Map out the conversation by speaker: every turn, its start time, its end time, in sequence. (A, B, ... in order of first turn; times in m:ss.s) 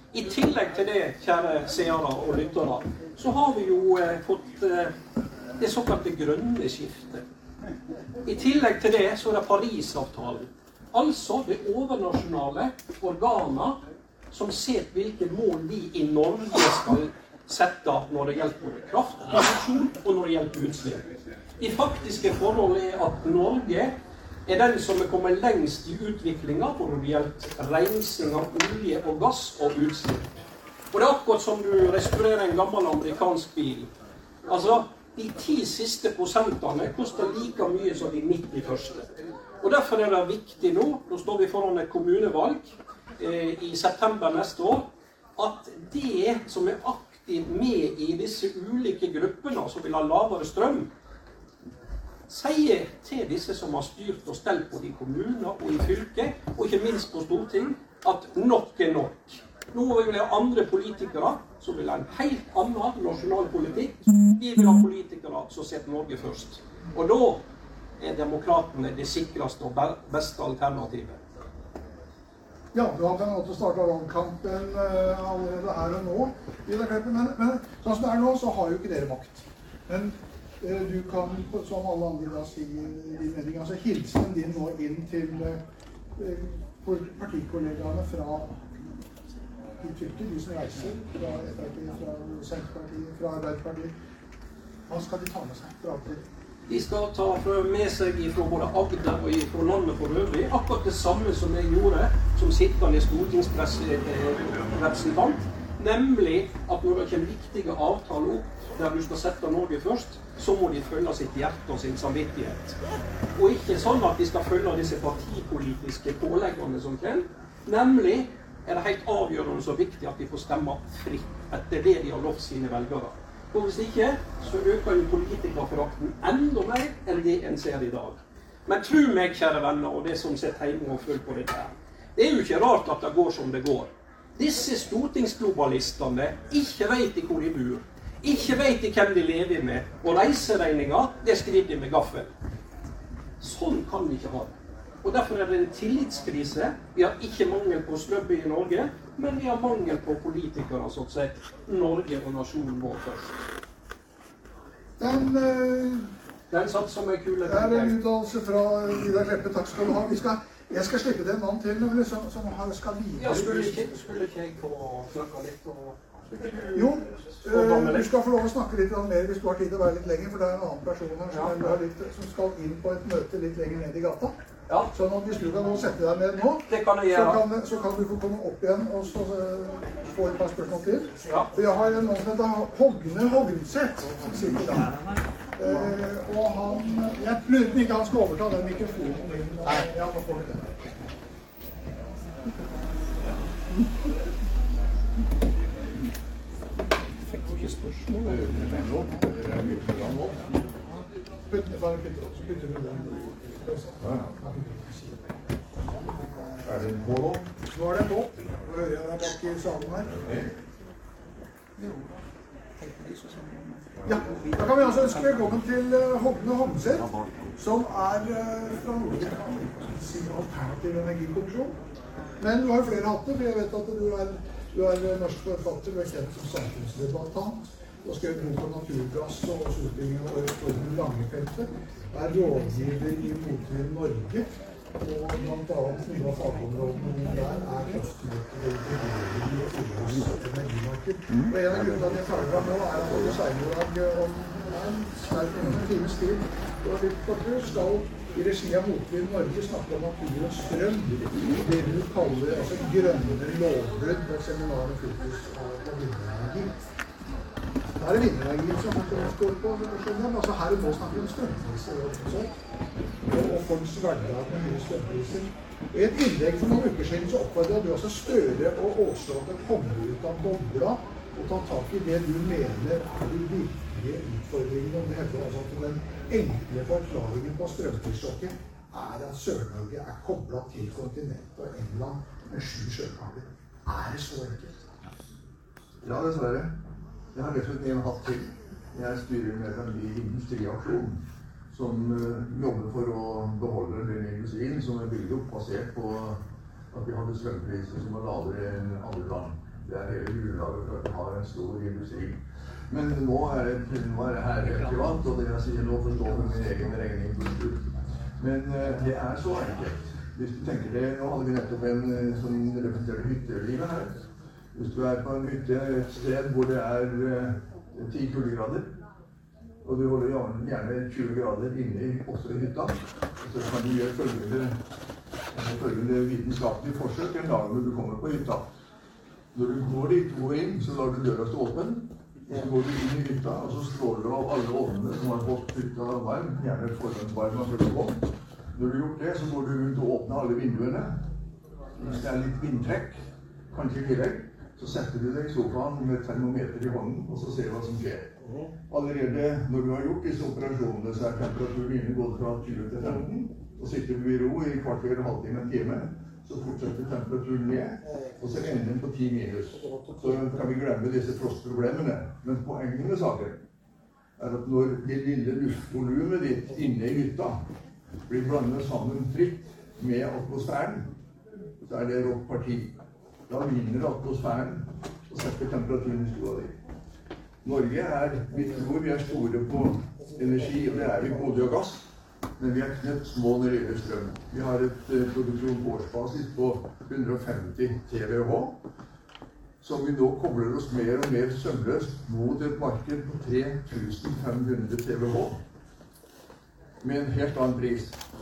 0:00.1-0:04.9 A
0:05.6-0:07.2 A
0:08.2-0:13.8 A
0:14.3-0:21.0 A
0:21.6-0:30.3 A
0:30.9-0:33.9 A
0:34.5-0:39.0 A
0:39.6-0:50.9 A
0:52.3-1:07.4 A
1:08.0-1:11.2 A
1:12.7-1:25.6 B
1:26.2-1:28.7 B
1:29.8-1:33.9 B
1:34.9-1:36.2 B
1:36.7-1:52.8 A
1:53.4-2:22.3 A
2:23.4-2:33.4 A
2:35.0-2:36.1 B
2:36.5-2:38.0 A
2:37.5-2:43.9 B
2:43.2-2:48.1 A
2:46.7-2:54.4 B
2:51.3-2:51.7 A
2:54.7-2:54.9 A
2:54.9-3:05.0 B
2:56.7-2:57.4 A
3:01.3-3:01.5 A
3:05.6-3:10.9 B
3:17.1-3:18.3 A
3:18.2-3:20.7 C
3:21.5-3:25.3 B
3:24.0-3:24.3 C
3:26.6-3:27.5 C
3:27.7-3:30.2 B
3:30.1-3:30.5 C
3:32.8-3:33.8 A
3:34.0-3:41.8 B
3:42.4-4:16.7 B
4:18.0-4:22.5 B
4:23.2-4:44.9 B
4:46.0-4:46.7 C
4:47.3-5:18.9 C
5:19.8-5:24.8 C
5:25.5-5:28.7 C
5:29.5-5:41.3 C
5:42.0-6:03.6 C
6:04.4-6:07.7 C
6:08.3-6:11.1 C
6:11.8-6:13.0 C
6:13.5-6:16.8 C
6:17.6-6:28.8 C
6:29.8-6:35.6 C
6:37.0-6:38.2 C